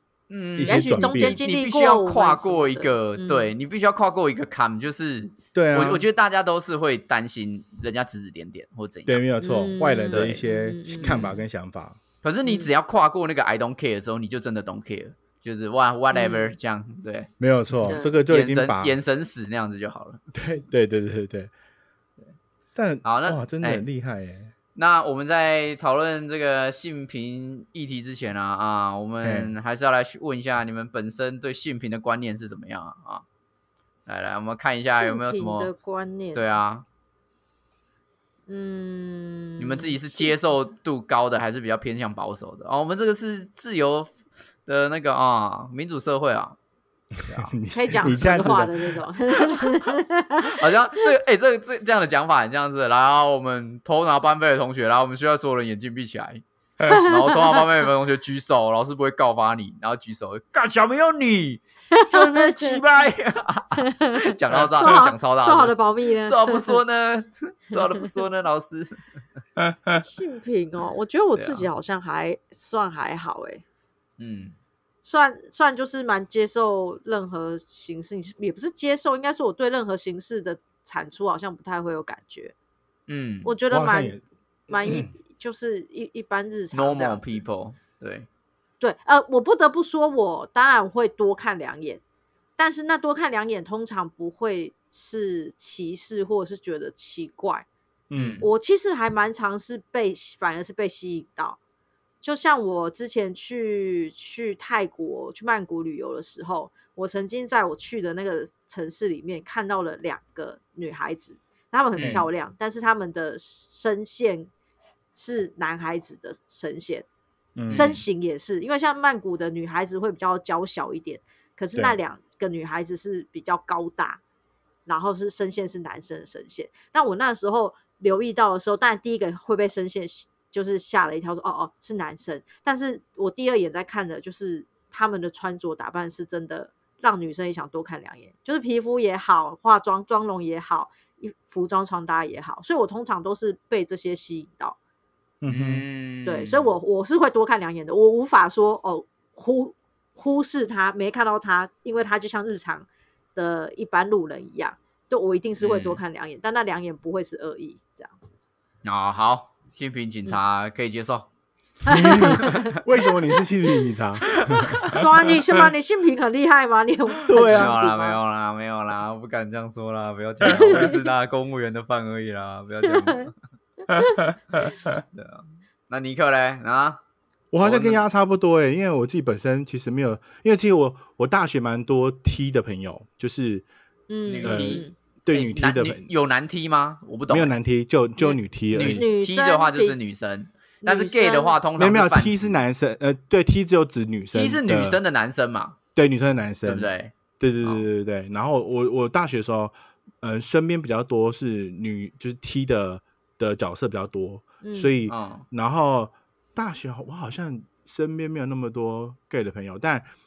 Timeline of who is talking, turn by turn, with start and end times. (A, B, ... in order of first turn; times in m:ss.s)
0:00.3-0:09.2 A
0:00.6-0:01.4 B
0:00.7-0:03.5 C
0:05.5-0:06.1 B
0:09.1-0:12.0 B
0:09.4-0:11.2 C
0:10.1-0:10.4 A
0:11.0-0:11.4 A
0:12.2-0:17.3 A
0:16.1-0:16.6 C
0:17.4-0:19.0 B
0:17.9-0:18.2 C
0:17.9-0:20.3 A
0:20.4-0:21.5 B
0:22.8-0:24.5 B
0:23.0-0:23.9 A
0:24.8-0:33.2 A
0:29.2-0:29.5 B
0:34.1-0:35.7 A
0:34.8-0:36.4 C
0:36.3-0:36.8 A
0:38.5-0:40.3 C
0:39.6-0:44.1 A
0:44.7-0:46.6 A
0:47.3-0:49.0 B
0:47.7-0:50.5 C
0:50.4-1:09.0 A
0:56.8-0:57.6 C
1:01.9-1:02.8 C
1:03.8-1:06.8 C
1:09.6-1:10.0 B
1:10.0-1:13.6 C
1:11.4-1:11.7 A
1:14.2-1:14.6 A
1:15.0-1:22.5 C
1:23.1-1:23.5 A
1:23.4-1:24.1 C
1:23.7-1:24.2 B
1:24.7-1:27.4 C
1:24.8-1:25.1 B
1:26.7-1:28.3 A
1:28.8-1:32.0 C
1:32.6-1:37.7 C
1:38.1-1:38.4 B
1:38.2-1:38.4 A
1:38.4-1:41.6 C
1:42.2-1:54.5 C
1:52.0-1:52.3 A
1:52.0-1:52.3 B
1:55.2-1:57.1 C
1:57.6-1:58.0 B
1:57.7-1:58.0 A
1:57.7-2:04.2 C
2:04.9-2:24.8 C
2:25.4-2:25.9 B
2:25.5-2:26.7 A
2:26.3-2:38.3 C
2:35.6-2:36.0 A
2:38.8-2:41.3 A
2:41.9-2:42.8 C
2:41.9-2:45.0 B
2:42.2-2:42.8 A
2:44.3-2:45.0 A
2:44.9-2:48.2 C
2:47.3-2:47.7 B
2:47.3-2:53.3 A
2:50.5-2:51.0 C
2:50.5-2:50.9 B
2:52.9-2:53.2 C
2:53.9-2:54.2 C
2:53.9-2:54.9 B
2:54.6-2:57.0 A
2:57.5-3:03.7 B
2:57.6-2:58.0 A
3:04.1-3:04.9 C
3:04.3-3:07.5 A
3:04.4-3:06.1 B
3:07.3-3:09.0 B
3:08.7-3:12.5 A
3:08.9-3:10.0 C
3:10.8-3:11.6 C
3:11.8-3:15.0 B
3:14.3-3:15.8 A
3:16.0-3:30.1 B
3:16.6-3:17.8 A
3:24.6-3:25.0 C
3:25.1-3:25.4 A